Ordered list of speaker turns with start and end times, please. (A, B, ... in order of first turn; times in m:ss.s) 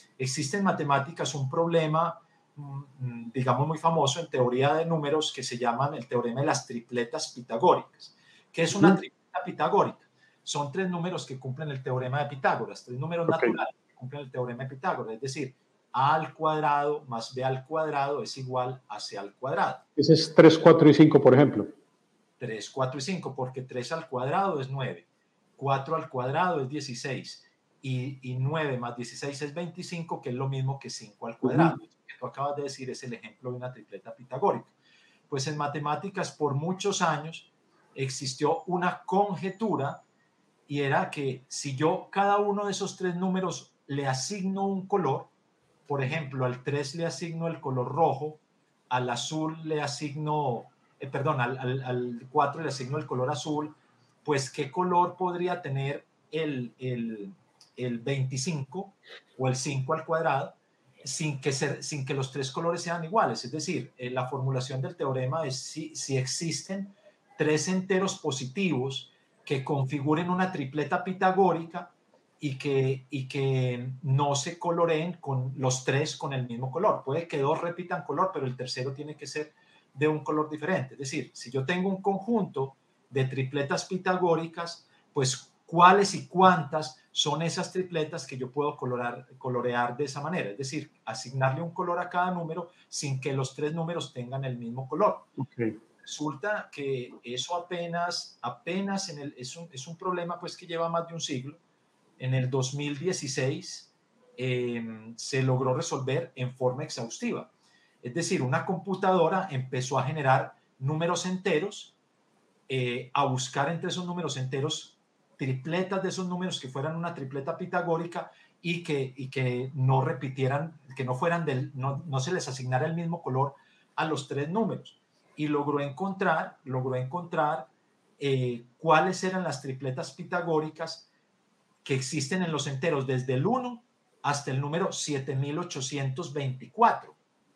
0:00.2-0:19.8 A
0:13.3-0:13.6 B
0:20.0-0:21.7 B
0:22.4-0:25.1 A
0:25.6-0:34.7 A
0:31.4-0:31.8 B
0:35.3-0:40.0 A
0:40.7-0:45.3 A
0:45.9-1:35.3 A
1:35.4-1:35.8 B
1:36.0-1:41.6 A
1:42.2-1:47.5 A
1:48.0-1:52.0 A
1:52.7-2:11.1 A
2:11.8-2:17.2 A